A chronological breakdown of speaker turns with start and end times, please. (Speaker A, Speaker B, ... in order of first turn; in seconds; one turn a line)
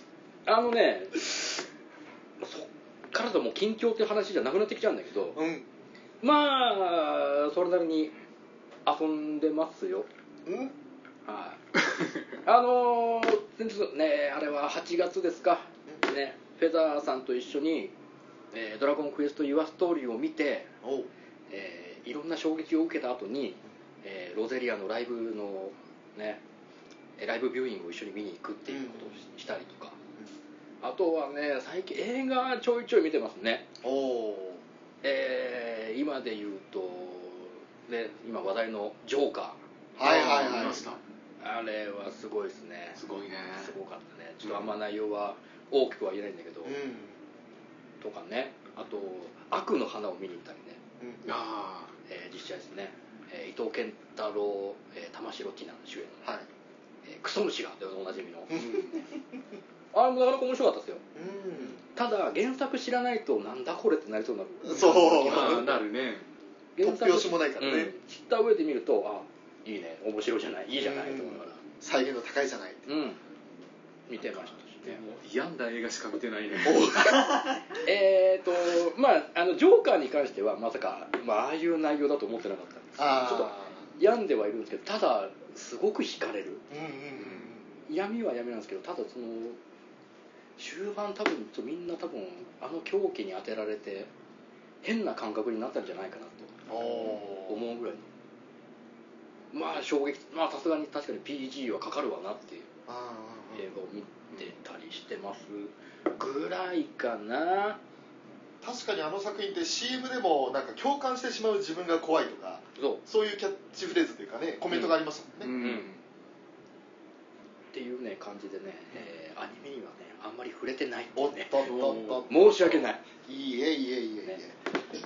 Speaker A: 0.5-1.5
Speaker A: 2.4-5.4
Speaker B: 5.3-5.7
Speaker A: 6.2-8.1
Speaker A: 8.9-10.1
Speaker B: 10.5-10.7
Speaker A: 11.3-11.6
Speaker A: 12.4-17.9
Speaker A: 18.5-20.7
Speaker B: 20.8-21.1
Speaker A: 21.5-26.4
Speaker A: 27.2-30.0
Speaker B: 28.7-29.1
Speaker A: 30.8-33.7
Speaker B: 33.8-34.6
Speaker A: 35.0-39.6
Speaker B: 40.0-40.8
Speaker C: 40.0-41.0
Speaker A: 41.4-43.0
Speaker C: 43.0-43.7
Speaker A: 43.5-46.8
Speaker C: 44.4-44.8
Speaker B: 46.6-47.2
Speaker A: 48.0-50.8
Speaker C: 51.2-51.9
Speaker A: 52.1-56.2
Speaker A: 57.0-58.6
Speaker B: 58.5-58.8
Speaker C: 58.5-59.0
Speaker A: 59.9-61.0
Speaker B: 61.1-61.8
Speaker A: 61.8-65.8
Speaker B: 64.6-65.8
Speaker C: 64.7-66.2
Speaker A: 66.8-71.6
Speaker B: 66.8-67.9
Speaker B: 70.8-72.9
Speaker A: 72.9-73.2
Speaker A: 74.1-75.0
Speaker C: 74.4-77.0
Speaker B: 76.7-77.4
Speaker A: 77.8-86.7
Speaker B: 83.0-83.8
Speaker B: 86.7-87.7
Speaker A: 87.9-89.6
Speaker A: 90.6-94.1
Speaker A: 94.8-98.1
Speaker B: 96.7-97.7
Speaker A: 99.5-102.7
Speaker B: 102.9-103.7
Speaker A: 103.5-107.8
Speaker B: 108.6-115.5
Speaker A: 112.8-113.0
Speaker C: 115.4-116.0
Speaker A: 115.5-115.9
Speaker A: 117.7-121.7
Speaker B: 121.2-124.5
Speaker C: 121.6-122.8
Speaker A: 122.3-123.0